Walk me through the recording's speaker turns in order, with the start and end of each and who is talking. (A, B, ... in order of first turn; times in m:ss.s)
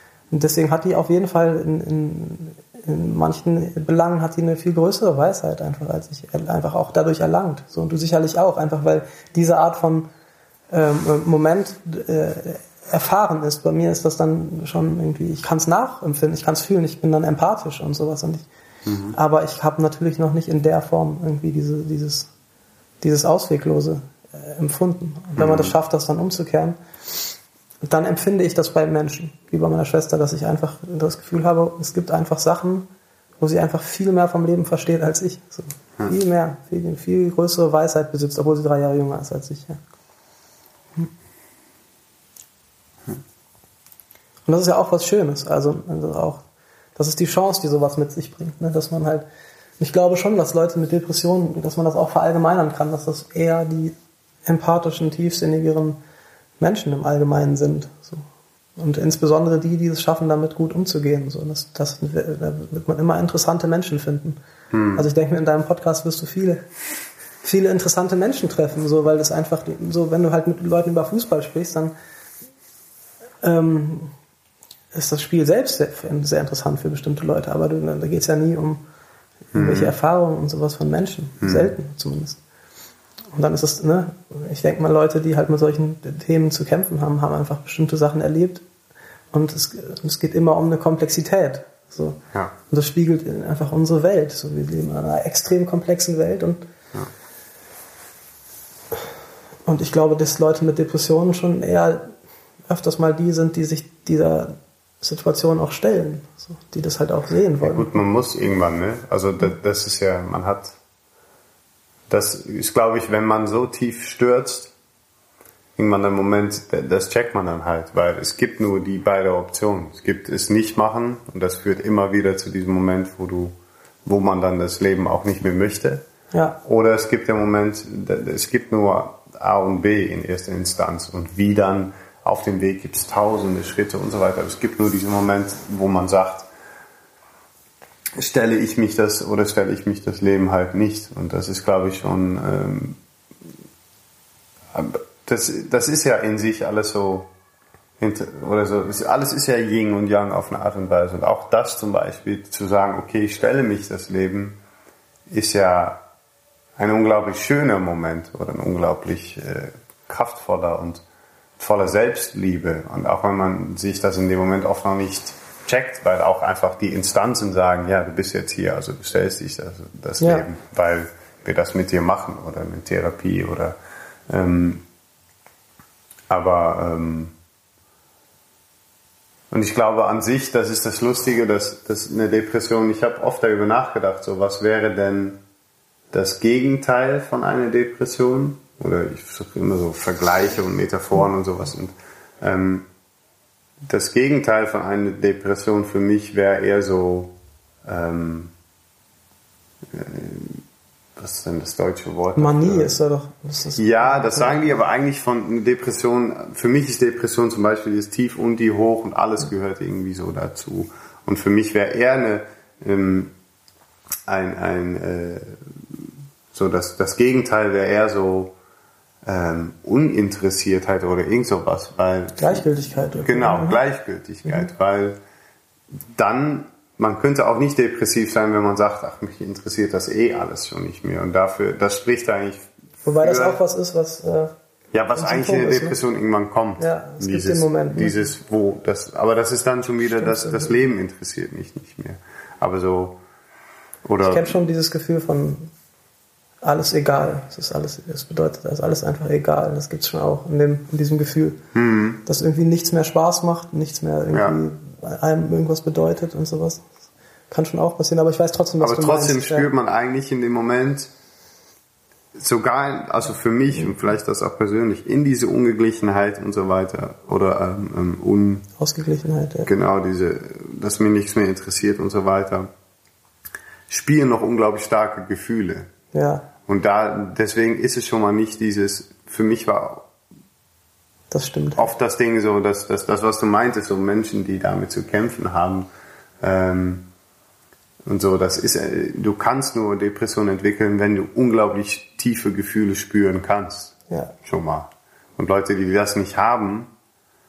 0:00.3-0:10.1 A
0:10.7-0:18.5 A
0:18.8-0:19.2 B
0:19.1-0:22.3 A
0:23.0-0:26.8 A
0:25.4-0:25.7 B
0:27.8-0:32.9 A
0:33.4-0:39.8 A
0:44.5-0:46.4 A
0:47.0-0:49.2 A
0:49.8-0:53.9 A
0:54.4-0:56.0 A
0:56.6-0:58.2 A
0:58.8-1:04.4 A
1:04.7-1:05.0 B
1:04.9-1:06.7 A
1:07.4-1:11.9 A
1:13.4-1:14.1 A
1:14.9-1:18.8 A
1:19.5-1:19.9 B
1:19.5-1:22.4 A
1:21.4-1:21.7 B
1:23.3-1:28.6 A
1:29.3-1:32.2 A
1:32.7-1:36.6 A
1:39.7-1:42.1 A
1:42.7-1:47.9 A
1:47.6-1:50.8 B
1:52.1-1:54.7 B
1:55.8-2:03.5 B
2:04.0-2:06.0 B
2:06.3-2:06.6 A
2:06.6-2:16.5 B
2:18.2-2:23.0 B
2:24.7-2:27.3 B
2:28.0-2:34.6 B
2:35.3-2:36.0 B
2:36.8-2:41.0 B
2:41.6-2:53.7 B
2:50.2-2:50.5 A
2:54.3-2:54.8 B
2:56.3-2:57.3 B
2:59.5-3:05.4 B
3:06.1-3:12.9 B
3:13.8-3:17.3 B
3:17.8-3:18.5 B
3:19.9-3:20.6 B
3:21.2-3:22.9 B
3:22.3-3:24.7 A
3:23.8-3:33.3 B
3:34.3-3:36.0 B
3:36.5-3:38.5 B
3:39.2-3:42.7 B
3:42.4-3:43.8 A
3:43.2-3:45.2 B
3:46.1-3:53.6 B
3:53.0-3:54.5 A
3:54.9-4:03.2 B
3:55.2-3:56.0 A
3:56.8-3:58.3 A
4:00.2-4:00.7 A
4:04.0-4:04.6 B
4:04.2-4:05.7 A
4:06.6-4:11.6 A
4:11.7-4:12.2 B
4:12.2-4:16.9 A
4:14.3-4:14.6 B
4:17.5-4:19.7 A
4:18.8-4:21.1 B
4:22.3-4:28.6 B
4:28.8-4:29.7 A
4:29.6-4:32.7 B
4:33.9-4:35.9 B
4:36.1-4:36.5 A
4:36.6-4:40.0 B
4:41.3-4:41.9 A
4:41.8-4:45.9 B
4:46.4-4:47.0 B
4:48.0-4:56.9 B